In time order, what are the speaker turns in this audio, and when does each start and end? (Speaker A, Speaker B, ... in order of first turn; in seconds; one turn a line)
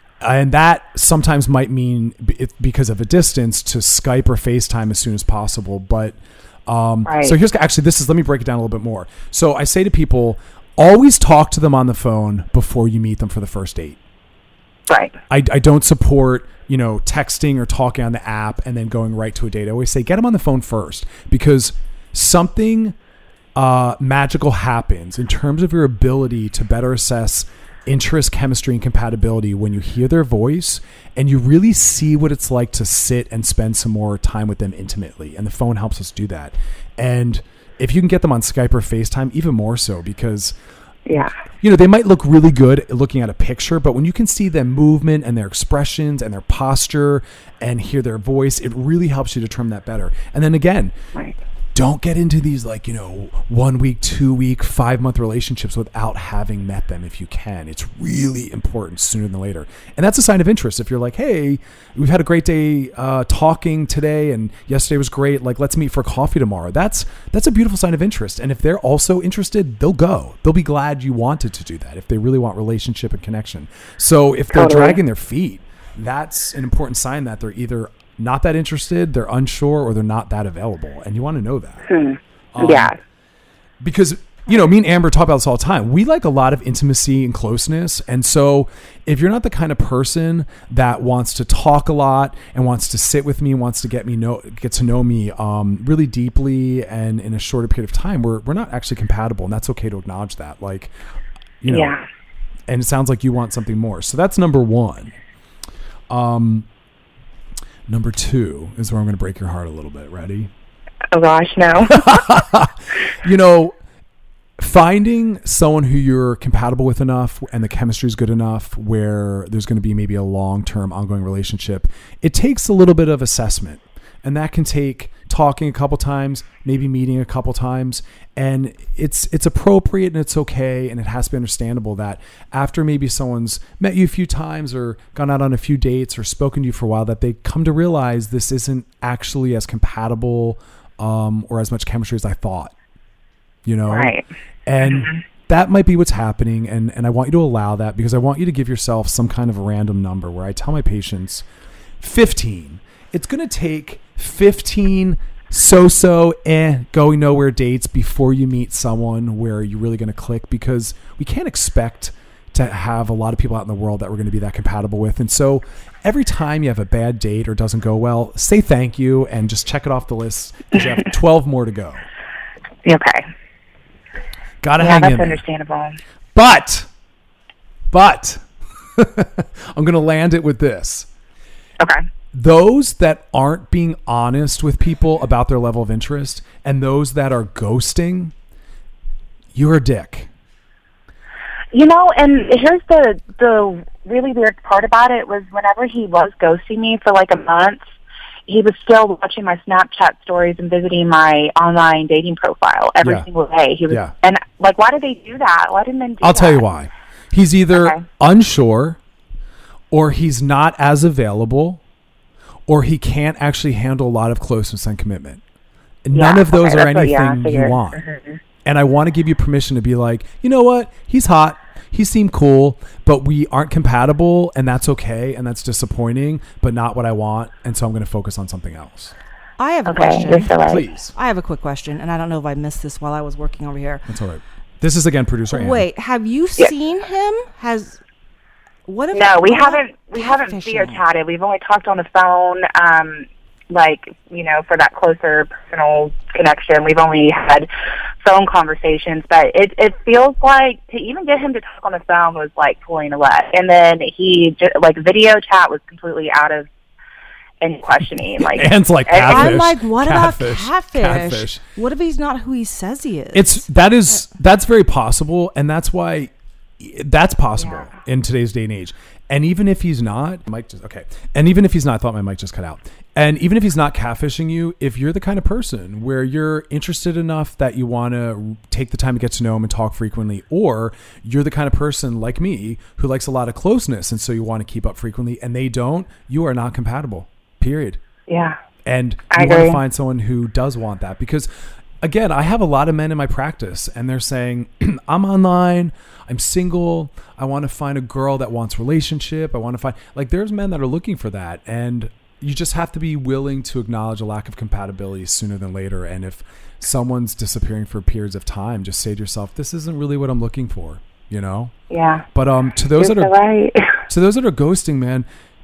Speaker A: 0.2-14.0
Speaker B: 7.0-7.3
Speaker B: 14.9-15.2
Speaker A: 15.3-23.0
Speaker A: 23.6-40.6
Speaker B: 41.1-41.3
Speaker A: 41.6-50.9
Speaker A: 51.8-81.9
Speaker B: 74.5-75.0
Speaker B: 81.9-83.0
Speaker A: 82.5-82.9
Speaker A: 83.8-100.9
Speaker A: 101.6-102.0
Speaker B: 101.7-102.0
Speaker A: 102.7-105.2
Speaker A: 106.1-106.7
Speaker A: 107.9-110.5
Speaker B: 111.1-112.2
Speaker A: 111.9-113.8
Speaker A: 114.6-142.8
Speaker A: 143.7-144.1
Speaker B: 143.9-144.3
Speaker A: 144.7-151.5
Speaker B: 144.8-145.2
Speaker A: 152.0-172.1
Speaker B: 172.8-173.2
Speaker A: 174.6-175.4
Speaker B: 174.8-176.0
Speaker A: 176.3-176.9
Speaker A: 177.9-181.1
Speaker A: 182.3-188.3
Speaker A: 189.5-190.3
Speaker B: 191.7-197.8
Speaker B: 198.5-206.7
Speaker A: 203.0-203.3
Speaker A: 203.9-204.1
Speaker A: 206.2-209.0
Speaker B: 207.7-208.0
Speaker A: 209.9-211.8
Speaker A: 212.7-215.4
Speaker A: 216.1-218.0
Speaker B: 216.1-218.4
Speaker A: 218.6-229.2
Speaker C: 229.6-230.6
Speaker B: 229.9-230.9
Speaker A: 230.6-231.1
Speaker C: 231.1-234.1
Speaker A: 234.1-235.9
Speaker C: 235.5-238.0
Speaker C: 238.9-241.0
Speaker B: 239.1-247.7
Speaker B: 248.2-256.7
Speaker B: 257.6-259.6
Speaker A: 258.4-261.6
Speaker C: 259.3-263.7
Speaker A: 263.3-288.0
Speaker B: 267.6-267.9
Speaker B: 288.3-288.6
Speaker A: 288.9-291.5
Speaker B: 289.3-289.8
Speaker A: 292.0-311.7
Speaker B: 311.9-312.2
Speaker A: 312.3-313.3
Speaker B: 313.0-314.0
Speaker A: 314.1-315.3